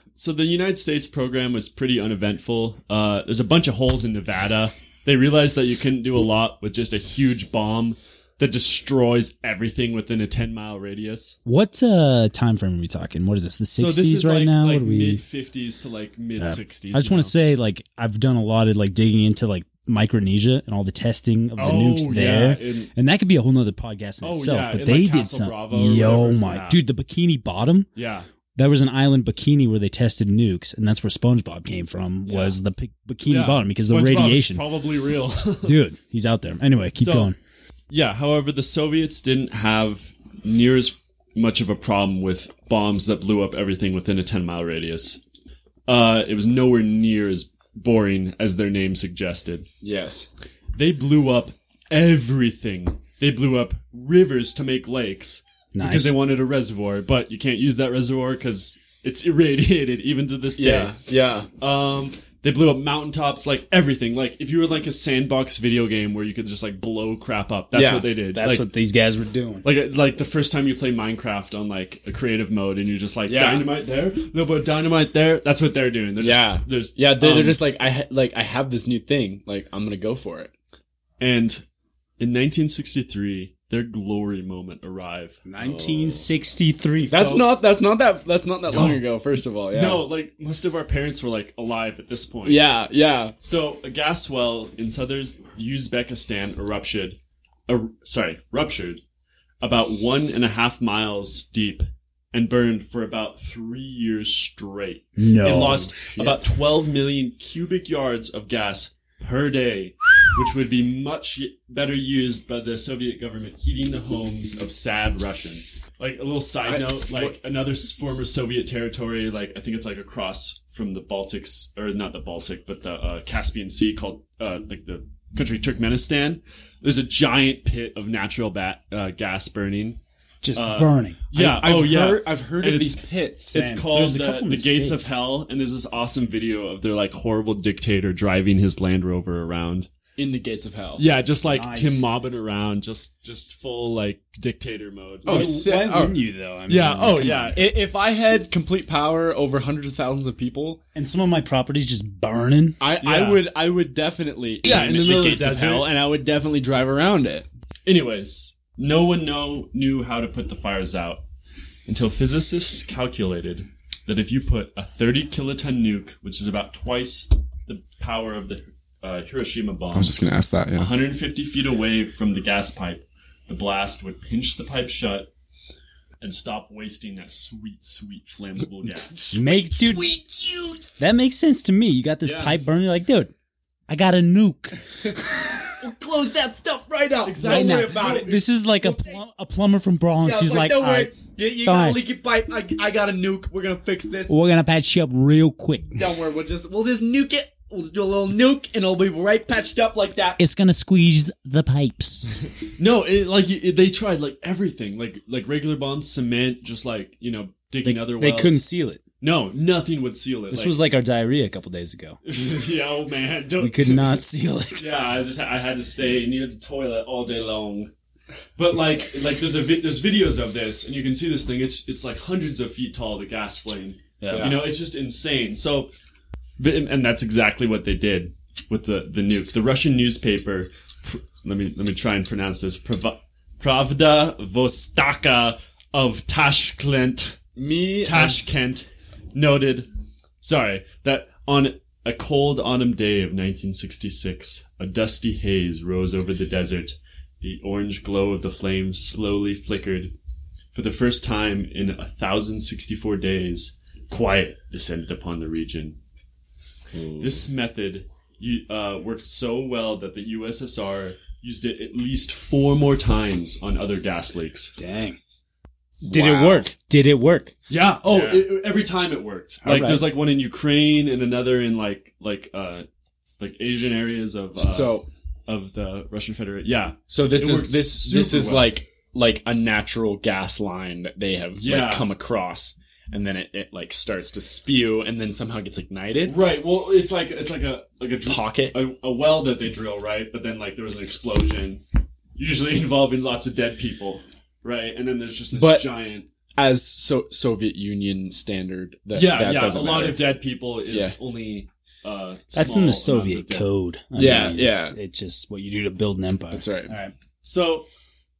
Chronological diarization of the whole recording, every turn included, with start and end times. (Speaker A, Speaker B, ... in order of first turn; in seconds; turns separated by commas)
Speaker A: 0.2-11.4, Speaker B: 11.5-15.2, Speaker A: 13.8-17.3, Speaker B: 16.4-27.9, Speaker A: 21.6-22.9, Speaker A: 24.2-26.9, Speaker A: 28.0-28.3, Speaker B: 28.6-34.6, Speaker A: 32.3-32.6, Speaker A: 33.3-35.8, Speaker B: 35.6-37.4, Speaker A: 37.0-37.3, Speaker A: 37.9-45.2, Speaker A: 45.9-49.7, Speaker C: 49.8-50.3, Speaker A: 50.8-61.0, Speaker B: 55.7-56.1, Speaker C: 60.6-61.5, Speaker A: 61.6-68.7, Speaker C: 67.7-68.1, Speaker B: 68.3-69.7, Speaker A: 69.6-77.6, Speaker C: 73.3-73.7, Speaker C: 76.2-80.5, Speaker A: 81.2-81.6, Speaker A: 82.2-85.4, Speaker B: 85.5-87.4, Speaker C: 85.6-86.2, Speaker C: 87.1-90.0, Speaker A: 89.7-92.7, Speaker C: 92.5-93.3, Speaker A: 93.4-97.2, Speaker A: 97.7-99.0, Speaker A: 99.6-130.0, Speaker B: 105.2-105.9, Speaker C: 105.5-106.4, Speaker C: 116.7-117.3, Speaker B: 130.4-131.2, Speaker A: 130.5-139.9, Speaker C: 131.3-133.6, Speaker B: 133.5-135.1, Speaker C: 140.2-141.1, Speaker A: 141.0-145.6, Speaker B: 141.5-142.1, Speaker C: 145.2-146.2, Speaker B: 145.3-147.6, Speaker A: 146.7-147.6, Speaker C: 147.5-150.8, Speaker B: 150.9-152.8, Speaker C: 152.8-157.5, Speaker A: 153.0-153.4, Speaker A: 154.6-155.9, Speaker A: 157.9-161.2, Speaker A: 161.9-170.2, Speaker C: 169.9-170.9, Speaker A: 170.8-175.3, Speaker A: 176.2-179.1, Speaker C: 178.9-180.9, Speaker B: 179.3-180.1, Speaker B: 181.0-183.3, Speaker C: 182.2-182.6, Speaker B: 183.9-185.7, Speaker C: 185.8-189.2, Speaker A: 187.2-188.3, Speaker B: 187.4-192.0, Speaker C: 190.2-194.4, Speaker B: 194.3-196.0, Speaker C: 195.9-200.4, Speaker B: 200.4-202.3, Speaker A: 202.8-208.6, Speaker B: 207.8-209.0, Speaker A: 209.2-210.8, Speaker B: 210.5-212.2, Speaker A: 212.2-214.2, Speaker B: 213.6-215.1, Speaker A: 214.8-217.9, Speaker A: 218.6-225.9, Speaker B: 224.2-224.6, Speaker C: 224.3-224.6, Speaker A: 226.6-237.4, Speaker C: 237.6-238.5, Speaker A: 238.0-239.9, Speaker A: 240.4-250.1, Speaker A: 250.7-256.0, Speaker C: 256.9-257.4, Speaker A: 257.2-264.8, Speaker B: 264.8-265.2, Speaker C: 266.1-266.7, Speaker B: 266.1-267.5, Speaker A: 267.7-272.9, Speaker C: 268.1-268.5, Speaker B: 269.6-270.1, Speaker A: 273.4-278.8, Speaker C: 274.6-275.1, Speaker C: 277.1-286.4, Speaker A: 281.6-282.1, Speaker A: 286.2-291.8, Speaker C: 288.3-288.8, Speaker A: 292.4-296.3, Speaker C: 295.5-295.9, Speaker C: 296.6-300.2, Speaker A: 299.1-303.7, Speaker C: 300.9-301.2, Speaker B: 302.5-307.1, Speaker C: 304.2-305.0, Speaker C: 306.5-306.9, Speaker A: 307.4-307.9